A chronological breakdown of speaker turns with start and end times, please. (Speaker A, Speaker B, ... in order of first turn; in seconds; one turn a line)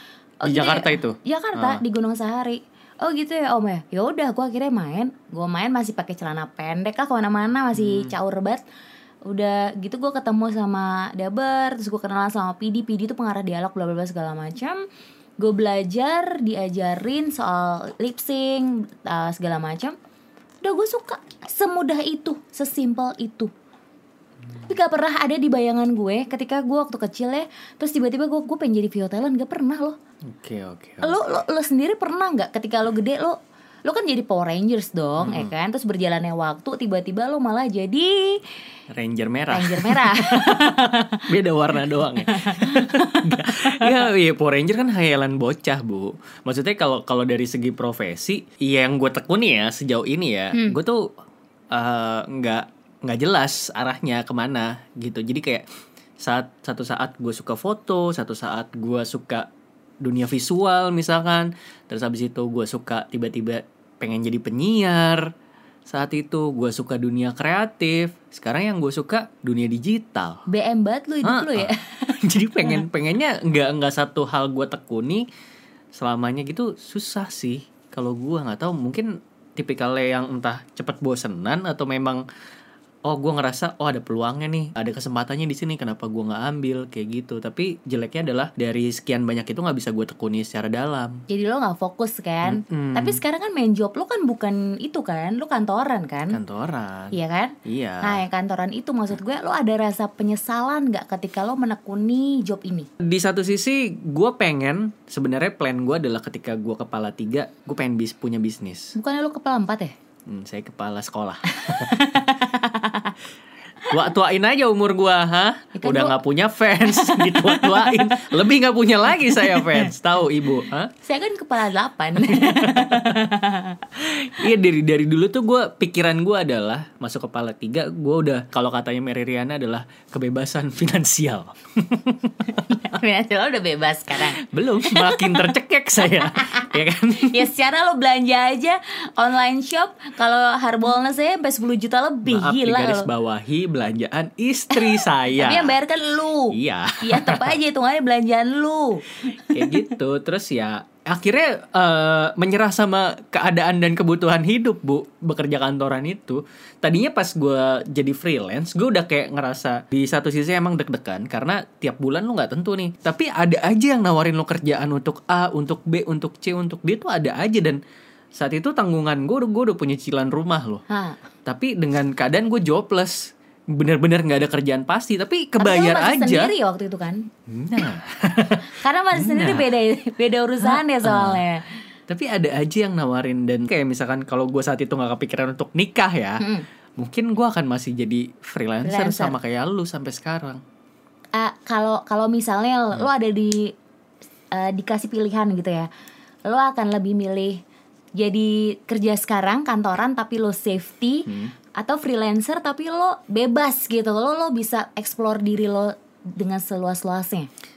Speaker A: 0.4-8.6
Speaker B: 0.4-1.8
Speaker B: 7.7-8.1
Speaker A: 9.2-14.8
Speaker A: 15.4-19.9
Speaker A: 20.6-23.5
Speaker A: 24.6-30.0
Speaker B: 30.3-31.3
Speaker A: 31.0-38.5
Speaker B: 35.2-35.5
Speaker B: 38.9-51.1
Speaker A: 39.5-41.2
Speaker A: 42.2-44.0
Speaker B: 51.7-55.6
Speaker B: 56.2-59.5
Speaker B: 60.0-65.3
Speaker B: 65.8-70.4
Speaker A: 70.5-72.8
Speaker B: 71.2-75.2
Speaker B: 75.9-82.2
Speaker B: 83.1-91.2
Speaker A: 91.3-96.4
Speaker B: 92.4-93.2
Speaker B: 96.3-98.2
Speaker A: 97.1-102.9
Speaker B: 103.0-108.9
Speaker A: 109.0-109.9
Speaker B: 110.3-112.0
Speaker A: 111.5-113.1
Speaker B: 113.9-120.9
Speaker A: 115.8-116.2
Speaker A: 116.9-118.2
Speaker A: 119.3-119.9
Speaker A: 121.0-123.8
Speaker B: 122.3-123.2
Speaker B: 123.9-132.8
Speaker A: 132.5-135.5
Speaker B: 134.1-137.5
Speaker A: 136.1-143.1
Speaker B: 142.2-145.8
Speaker A: 144.7-149.9
Speaker B: 146.5-147.6
Speaker B: 149.4-167.8
Speaker B: 168.3-170.8
Speaker A: 170.9-171.2
Speaker B: 171.4-176.5
Speaker A: 175.6-177.3
Speaker B: 177.5-179.7
Speaker A: 178.7-181.8
Speaker B: 180.6-181.4
Speaker B: 182.1-186.4
Speaker A: 186.4-186.7
Speaker B: 187.0-190.6
Speaker A: 188.8-189.4
Speaker A: 191.3-193.7
Speaker A: 194.5-195.9
Speaker A: 196.4-197.6
Speaker A: 198.2-207.5
Speaker B: 201.2-201.5